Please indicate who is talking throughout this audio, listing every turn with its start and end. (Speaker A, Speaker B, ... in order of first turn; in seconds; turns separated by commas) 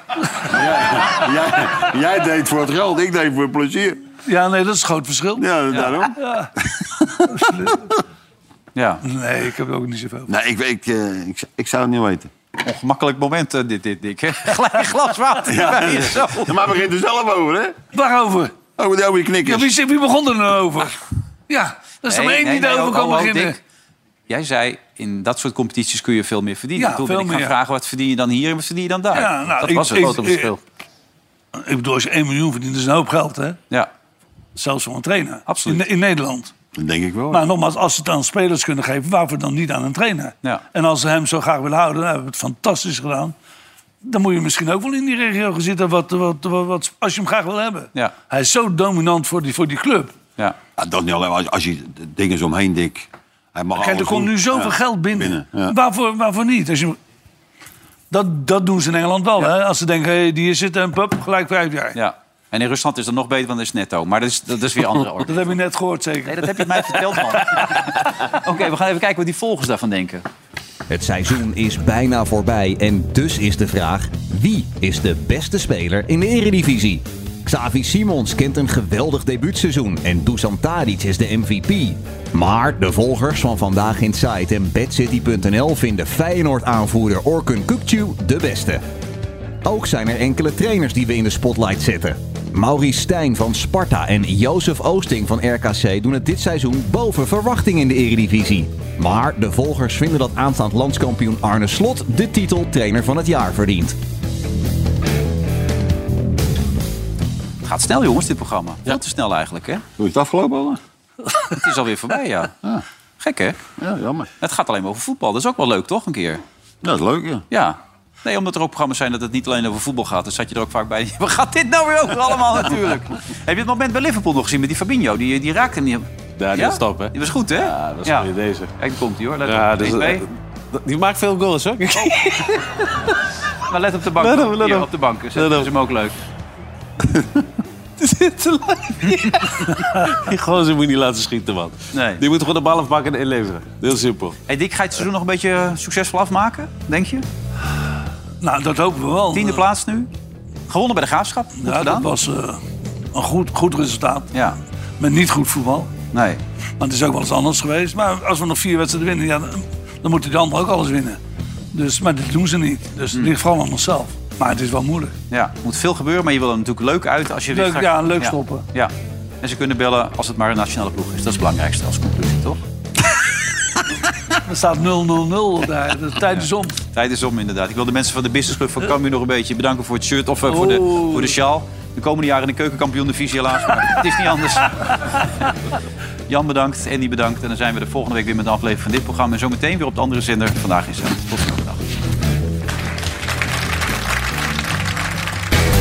Speaker A: 0.4-4.0, Speaker B: 4.2-5.5, Speaker A: 5.4-6.2, Speaker C: 5.7-6.0, Speaker B: 6.2-6.5, Speaker A: 6.8-7.4, Speaker B: 7.2-7.8, Speaker C: 8.8-9.0, Speaker B: 9.1-10.3, Speaker A: 10.3-12.3, Speaker C: 12.6-16.5, Speaker A: 15.4-17.8, Speaker B: 17.9-18.6, Speaker A: 18.8-19.7, Speaker B: 19.4-23.6, Speaker C: 22.1-23.6, Speaker C: 24.3-30.2, Speaker B: 26.8-27.6, Speaker B: 29.1-30.5, Speaker D: 29.9-30.6, Speaker B: 31.6-33.6, Speaker B: 34.6-36.5, Speaker C: 35.5-35.8, Speaker A: 36.8-37.5, Speaker B: 37.3-43.4, Speaker B: 44.0-50.1, Speaker A: 50.8-55.8, Speaker B: 53.8-57.0, Speaker B: 58.1-62.0, Speaker C: 62.0-65.4, Speaker B: 65.2-67.8, Speaker C: 66.3-70.2, Speaker E: 70.9-88.8, Speaker E: 89.7-104.0, Speaker C: 107.6-109.8, Speaker A: 110.0-110.8, Speaker C: 111.5-112.5, Speaker C: 113.2-113.6, Speaker A: 113.8-114.3, Speaker C: 114.4-116.4, Speaker A: 116.8-117.5, Speaker C: 117.5-130.2, Speaker D: 126.4-128.7, Speaker D: 129.4-133.2, Speaker C: 133.7-136.1, Speaker D: 134.2-135.7, Speaker D: 138.0-144.4, Speaker C: 141.9-142.2, Speaker C: 144.5-147.2, Speaker B: 148.4-149.7, Speaker C: 149.3-150.1, Speaker C: 150.7-152.1, Speaker B: 151.6-152.6, Speaker B: 153.1-154.3, Speaker C: 154.3-154.6, Speaker B: 155.0-155.9, Speaker C: 156.1-156.4, Speaker B: 156.8-161.2, Speaker B: 161.7-165.1, Speaker C: 165.3-172.6, Speaker B: 167.5-168.7, Speaker B: 174.5-176.8, Speaker C: 176.3-185.5, Speaker B: 180.5-181.4, Speaker C: 186.3-191.8